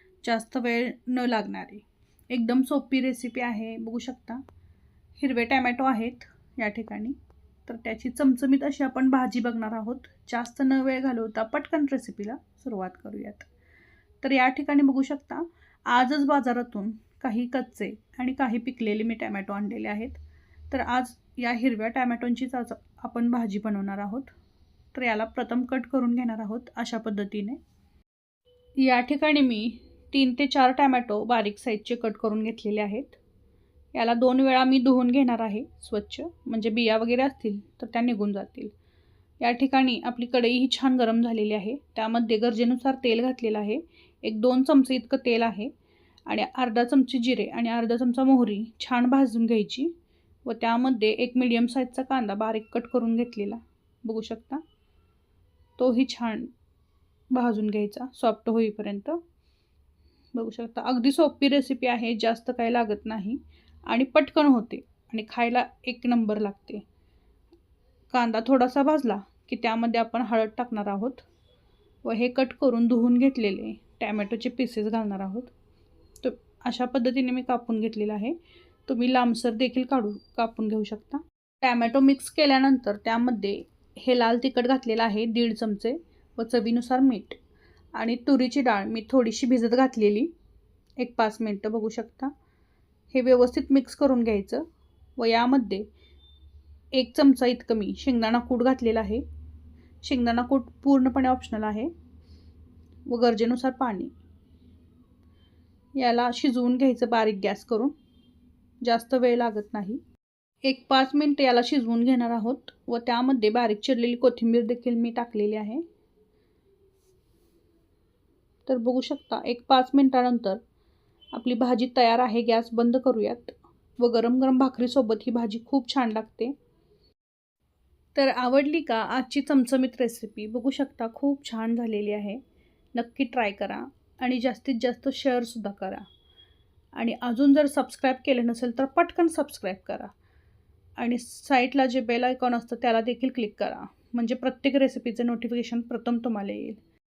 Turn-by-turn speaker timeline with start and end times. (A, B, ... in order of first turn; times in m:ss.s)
0:00.2-0:04.4 A
0:05.2-0:13.5 A
0:14.2-0:24.3 A
0:24.9-0:27.6 A
0:28.8-0:33.2 A
0:33.9-0:38.7 A
0:39.4-0:45.7 A
0:46.2-0:49.9 A
0:50.4-0:54.6 A
0:55.8-0:56.5 A
0:57.3-0:59.2 A
1:00.3-1:06.8 A
1:08.1-1:11.2 A
1:12.0-1:15.5 A
1:16.2-1:18.3 A
1:18.9-1:27.4 A
1:27.9-1:30.3 A
1:31.0-1:32.3 A
1:33.1-1:34.6 A
1:35.2-1:35.9 A
1:36.9-1:39.2 A
1:40.0-1:41.9 A
1:43.1-1:44.1 A
1:45.9-1:47.9 A
1:48.8-1:50.0 A
1:50.6-1:55.8 A
1:58.6-2:00.6 A
2:01.3-2:06.5 A
2:08.1-2:12.4 A
2:12.9-2:16.0 A
2:16.9-2:20.1 A
2:21.0-2:26.8 A